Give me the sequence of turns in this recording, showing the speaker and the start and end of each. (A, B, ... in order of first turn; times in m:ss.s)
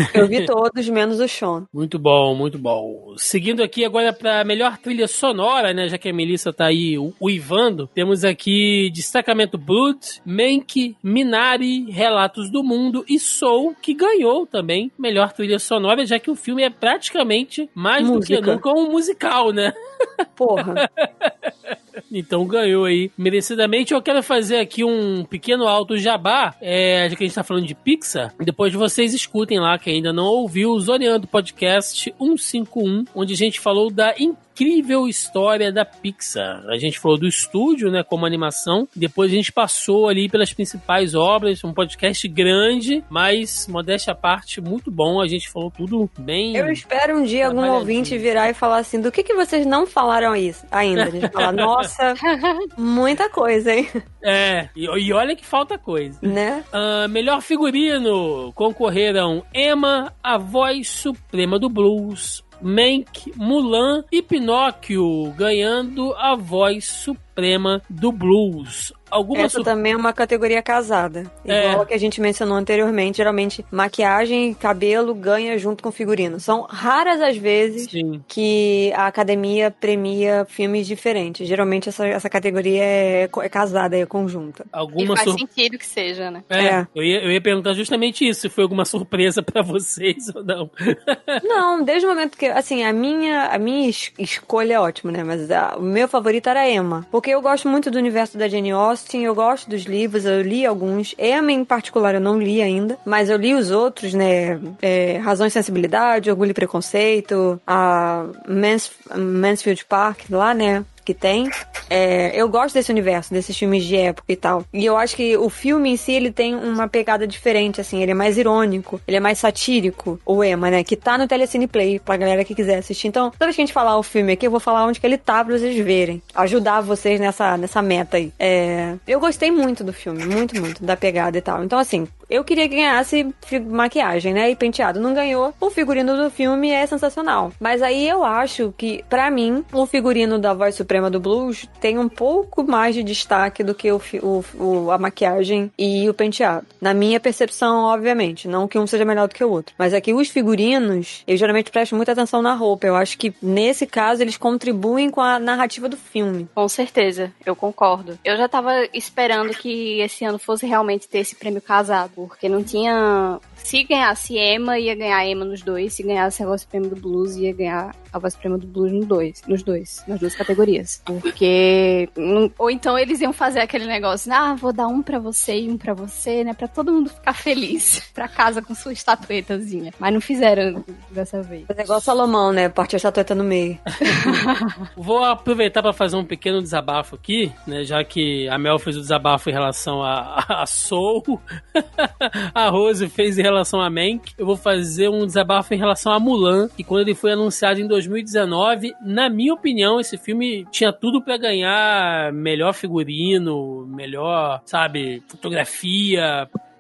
0:00.1-0:01.7 A
0:01.7-0:19.7 B
0:18.0-0:18.6 A
0:20.4-0:20.8 A
0:20.6-0:46.8 B
0:46.5-0:52.2 A
0:47.4-0:48.3 B
0:51.0-0:51.9 B
0:52.2-0:52.7 C
0:52.8-0:54.0 A
0:54.2-1:09.7 B
0:56.2-0:56.6 A
1:09.4-1:24.7 A
1:11.5-1:11.9 B
1:17.8-1:18.2 B
1:24.7-1:25.4 B
1:25.0-1:26.4 C
1:26.5-1:31.4 B
1:26.6-1:26.9 A
1:31.4-2:36.5 A
2:36.6-3:02.1 C
3:01.7-3:03.8 A
3:04.1-3:04.7 C
3:05.0-3:26.5 B